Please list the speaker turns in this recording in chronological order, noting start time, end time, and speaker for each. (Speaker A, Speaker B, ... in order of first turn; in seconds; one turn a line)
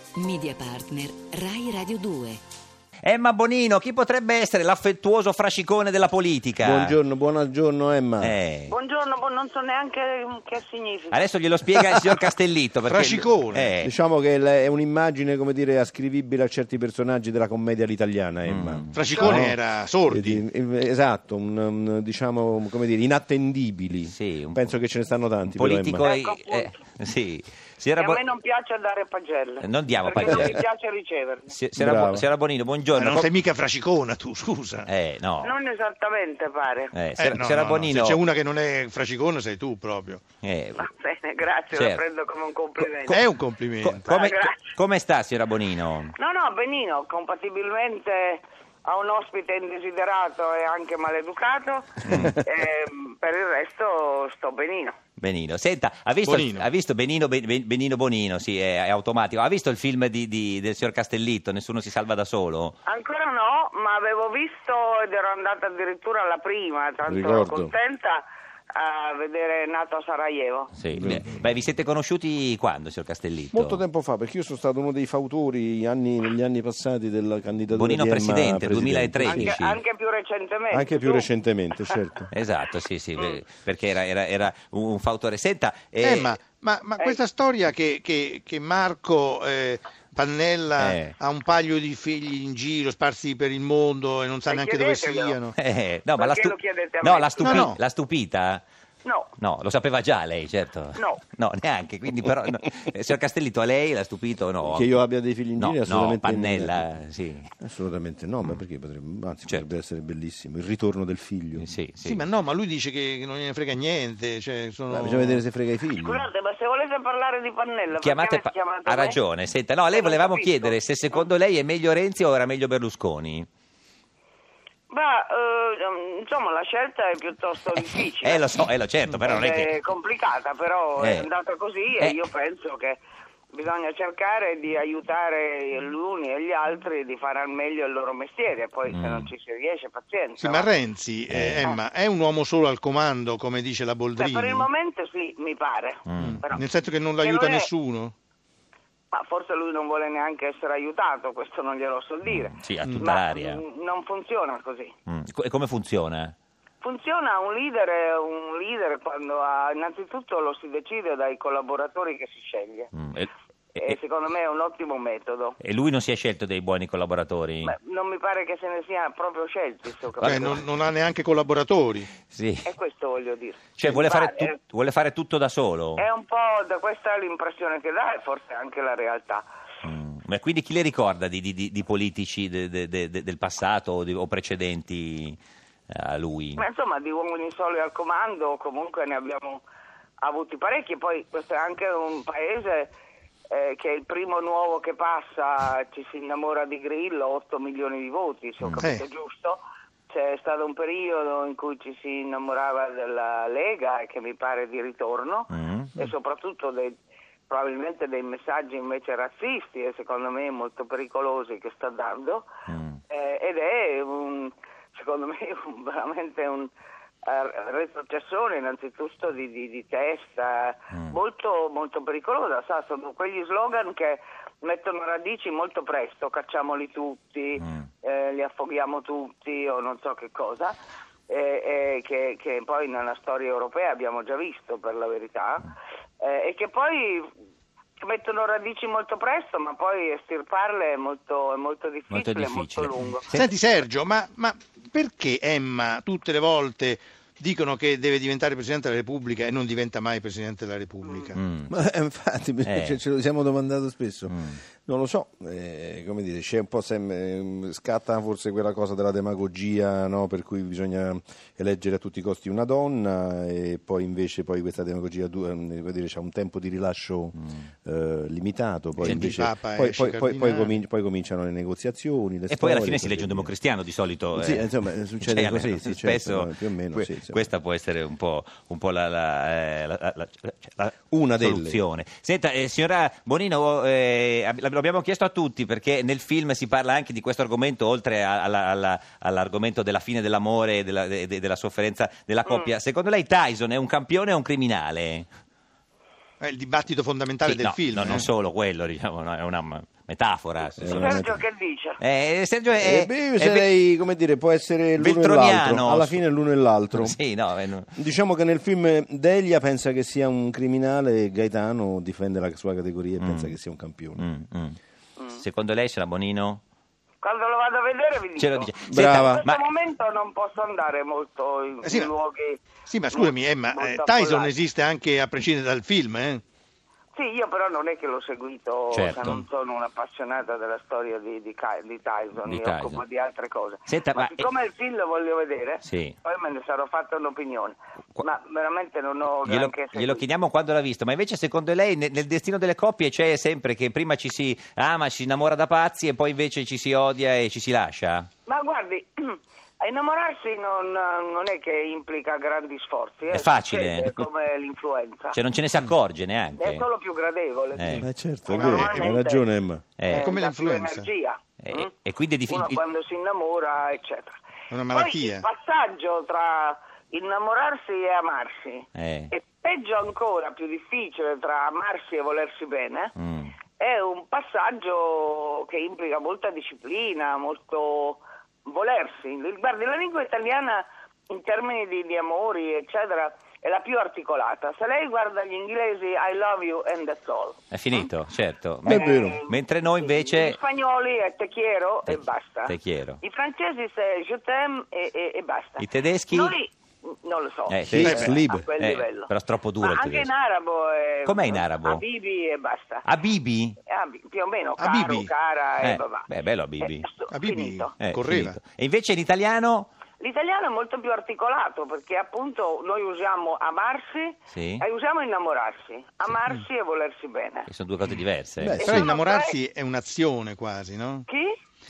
Speaker A: 0.1-2.4
Speaker B: 3.0-7.0
Speaker C: 6.6-8.3
Speaker B: 8.2-8.7
Speaker D: 8.7-11.3
Speaker B: 11.1-13.9
Speaker E: 12.8-13.7
Speaker C: 13.8-26.1
Speaker B: 18.5-19.0
Speaker E: 18.9-20.4
Speaker D: 19.1-19.4
Speaker B: 24.1-24.7
Speaker B: 25.5-28.2
Speaker D: 26.0-26.8
Speaker D: 28.0-31.5
Speaker B: 29.6-30.6
Speaker B: 31.5-33.3
Speaker C: 31.8-32.2
Speaker E: 32.9-34.9
Speaker B: 34.9-35.5
Speaker D: 35.4-36.9
Speaker B: 36.9-38.2
Speaker E: 37.2-40.2
Speaker B: 40.4-40.9
Speaker D: 40.8-43.2
Speaker B: 41.7-42.0
Speaker E: 43.1-44.0
Speaker B: 43.8-46.1
Speaker D: 44.0-44.6
Speaker D: 46.1-55.0
Speaker B: 52.0-52.4
Speaker B: 55.2-62.8
Speaker E: 56.2-56.7
Speaker D: 62.8-70.7
Speaker C: 67.0-67.7
Speaker B: 70.7-73.8
Speaker C: 70.9-71.5
Speaker C: 73.5-79.6
Speaker B: 77.7-79.8
Speaker D: 79.2-81.3
Speaker C: 80.7-82.3
Speaker B: 82.3-86.3
Speaker E: 86.0-95.5
Speaker B: 90.8-91.1
Speaker D: 94.5-95.4
Speaker B: 95.5-98.6
Speaker D: 96.2-97.7
Speaker E: 97.4-97.8
Speaker D: 99.0-99.3
Speaker B: 99.4-105.0
Speaker D: 101.0-101.2
Speaker C: 104.6-106.9
Speaker B: 105.6-107.5
Speaker C: 107.6-111.7
Speaker B: 111.6-112.2
Speaker E: 112.0-115.4
Speaker C: 114.9-116.3
Speaker D: 115.9-119.2
Speaker B: 118.0-123.5
Speaker D: 119.9-120.8
Speaker D: 124.9-128.5
Speaker B: 128.2-129.8
Speaker D: 129.2-133.0
Speaker B: 131.0-131.3
Speaker B: 132.0-132.2
Speaker D: 133.5-140.7
Speaker B: 138.9-139.3
Speaker E: 140.4-144.7
Speaker B: 141.3-141.7
Speaker D: 144.2-146.6
Speaker B: 146.1-146.6
Speaker E: 146.2-148.1
Speaker D: 147.2-147.7
Speaker D: 149.1-154.9
Speaker B: 152.2-153.6
Speaker B: 155.1-156.3
Speaker D: 156.8-162.9
Speaker B: 162.9-163.9
Speaker D: 163.7-165.6
Speaker B: 165.6-167.7
Speaker D: 167.6-170.6
Speaker E: 170.2-172.1
Speaker B: 172.3-172.7
Speaker D: 172.6-174.6
Speaker B: 173.8-176.0
Speaker D: 175.9-179.4
Speaker B: 179.8-185.4
Speaker B: 185.9-186.6
Speaker D: 186.6-189.6
Speaker D: 190.2-192.9
Speaker D: 193.5-206.9
Speaker B: 205.5-206.0
Speaker D: 207.5-212.5
Speaker B: 212.7-213.0
Speaker D: 213.1-216.7
Speaker D: 217.2-230.8
Speaker B: 220.9-221.2
Speaker B: 227.6-227.8
Speaker D: 231.3-235.7
Speaker D: 236.2-237.3
Speaker D: 238.0-243.3
Speaker B: 242.1-243.4
Speaker E: 243.3-251.4
Speaker B: 251.3-251.7
Speaker C: 251.7-273.5
Speaker B: 252.6-253.0
Speaker B: 254.3-254.5
Speaker E: 269.0-270.7
Speaker B: 269.0-269.5
Speaker B: 272.5-295.3
Speaker C: 274.3-277.4
Speaker C: 281.1-281.8
Speaker D: 292.4-292.7
Speaker E: 296.4-298.2
Speaker B: 297.4-301.3
Speaker C: 300.8-301.4
Speaker D: 300.9-302.0
Speaker B: 302.0-303.7
Speaker C: 302.8-307.2
Speaker B: 305.0-306.2
Speaker B: 306.9-307.9
Speaker C: 307.9-314.2
Speaker B: 313.2-313.6
Speaker B: 314.2-314.8
Speaker B: 315.3-316.6
Speaker D: 317.2-324.5
Speaker B: 318.4-319.7
Speaker C: 318.9-319.4
Speaker E: 321.8-322.1
Speaker E: 322.9-326.4
Speaker D: 327.1-340.2
Speaker B: 328.9-329.4
Speaker B: 332.4-333.0
Speaker B: 333.9-334.4
Speaker B: 335.8-336.1
Speaker B: 339.3-348.3
Speaker D: 348.4-355.4
Speaker B: 353.3-354.2
Speaker B: 355.3-356.8
Speaker D: 356.6-359.4
Speaker B: 357.7-358.1
Speaker C: 357.9-359.8
Speaker E: 358.5-359.2
Speaker B: 360.0-360.3
Speaker D: 360.1-361.9
Speaker E: 360.1-361.1
Speaker B: 361.6-362.8
Speaker D: 362.5-364.4
Speaker E: 364.7-365.4
Speaker D: 364.9-373.1
Speaker B: 368.9-369.3
Speaker B: 373.2-373.5
Speaker D: 373.8-388.0
Speaker B: 387.7-390.6
Speaker C: 388.8-389.4
Speaker D: 388.9-403.0
Speaker B: 392.1-393.2
Speaker B: 395.8-396.6
Speaker B: 397.7-400.3
Speaker C: 397.9-398.7
Speaker E: 398.0-398.3
Speaker B: 401.2-402.0
Speaker B: 403.0-403.8
Speaker D: 403.8-406.3
Speaker E: 404.8-405.3
Speaker B: 405.8-407.1
Speaker D: 406.8-407.9
Speaker E: 407.3-408.6
Speaker B: 408.0-409.9
Speaker D: 410.2-417.7
Speaker B: 414.5-414.8
Speaker B: 417.7-418.9
Speaker C: 418.6-419.1
Speaker D: 418.8-419.6
Speaker E: 418.8-421.3
Speaker D: 421.3-421.5